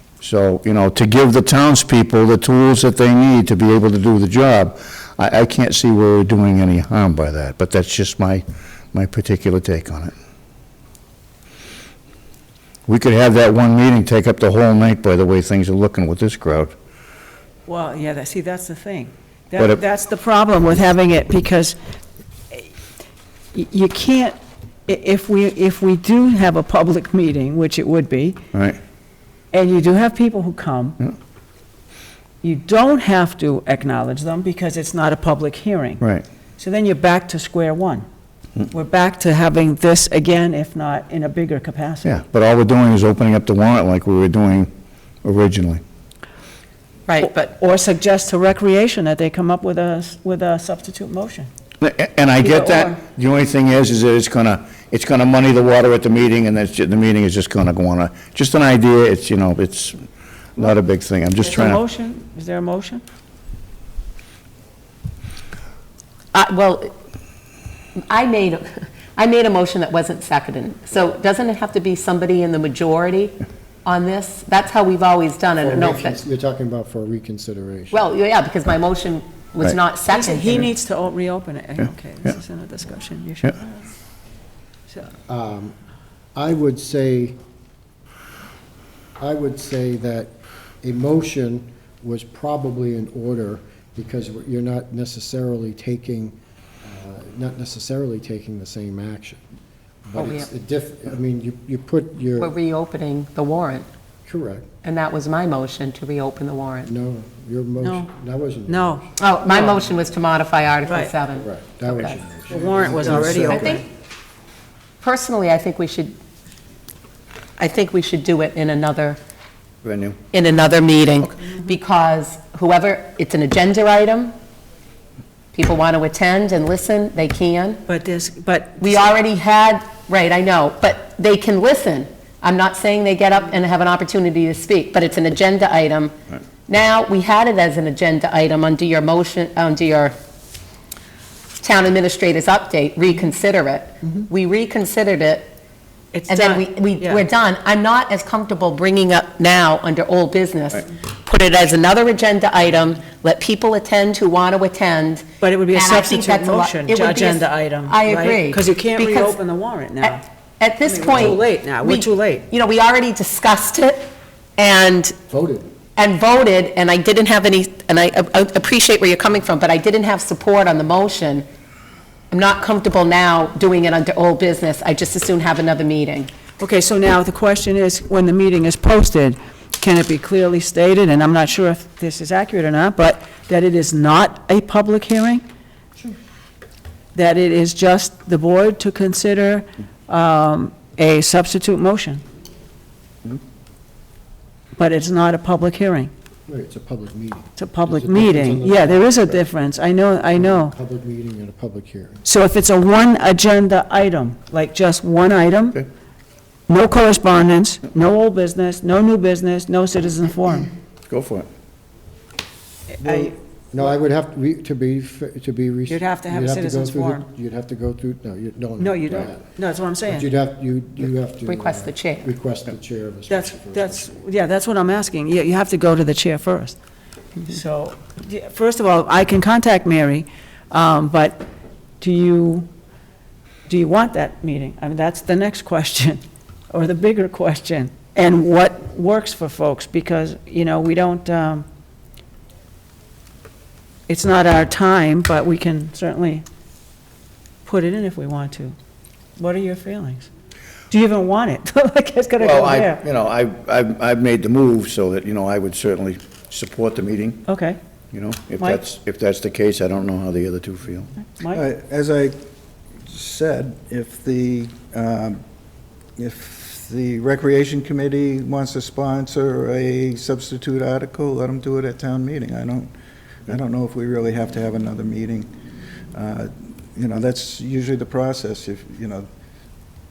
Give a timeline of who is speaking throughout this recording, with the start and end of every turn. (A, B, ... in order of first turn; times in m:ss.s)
0:00.2-0:10.1 A
0:12.9-0:16.7 A
0:17.7-0:21.8 B
0:23.5-0:28.4 B
0:28.5-0:28.8 A
0:29.5-0:31.0 B
0:32.4-0:36.0 B
0:36.6-0:38.0 B
0:38.7-0:42.1 B
0:42.0-0:44.7 A
0:45.2-0:45.8 A
0:47.1-0:47.5 C
0:47.2-0:51.5 B
0:51.8-1:00.0 A
0:52.4-0:53.0 B
1:00.6-1:01.8 A
1:01.4-1:03.0 B
1:06.3-1:06.9 C
1:08.1-1:16.2 C
1:15.6-1:18.0 D
1:17.9-1:20.7 C
1:20.1-1:23.9 B
1:25.3-1:25.8 D
1:26.3-1:27.4 D
1:29.2-1:30.3 D
1:30.8-1:39.4 D
1:40.1-1:42.5 D
1:40.2-1:40.5 C
1:42.4-1:43.9 C
1:44.2-1:44.7 D
1:44.8-1:46.9 C
1:46.9-1:49.3 D
1:47.8-1:48.1 B
1:48.7-1:49.7 B
1:49.2-1:51.5 C
1:50.8-1:51.1 B
1:51.3-1:53.8 D
1:52.5-1:53.8 B
1:53.0-1:53.8 C
1:55.0-1:56.1 C
1:57.6-1:59.2 C
1:59.8-2:00.2 A
2:00.3-2:04.3 C
2:05.5-2:07.8 C
2:07.9-2:09.2 B
2:08.8-2:16.1 C
2:16.7-2:20.2 C
2:21.6-2:25.5 C
2:26.1-2:27.2 B
2:26.3-2:39.4 C
2:35.4-2:40.2 B
2:40.0-2:45.2 C
2:40.8-2:42.5 B
2:45.3-2:45.7 D
2:46.0-2:51.5 C
2:52.3-2:56.3 C
2:56.6-3:05.4 B
3:07.2-3:12.2 B
3:14.8-3:16.1 B
3:16.5-3:19.4 D
3:17.6-3:20.7 B
3:20.4-3:22.2 D
3:22.2-3:25.8 B
3:26.7-3:30.7 B
3:31.1-3:31.5 A
3:33.0-3:33.3 B
3:33.0-3:39.5 D
3:35.9-3:37.2 B
3:38.8-3:40.2 B
3:40.1-3:44.1 D
3:41.5-3:42.3 C
3:43.3-3:46.8 B
3:47.4-3:51.5 B
3:52.0-3:52.7 B
3:53.7-4:01.7 B
4:04.1-4:06.4 B
4:07.6-4:08.8 B
4:09.4-4:10.3 B
4:10.9-4:13.0 B
4:12.4-4:17.4 A
4:17.5-4:17.8 B
4:18.1-4:21.1 A
4:21.4-4:21.6 B
4:21.5-4:22.3 E
4:23.1-4:25.4 E
4:26.2-4:32.9 E
4:33.5-4:35.5 E
4:36.1-4:39.3 E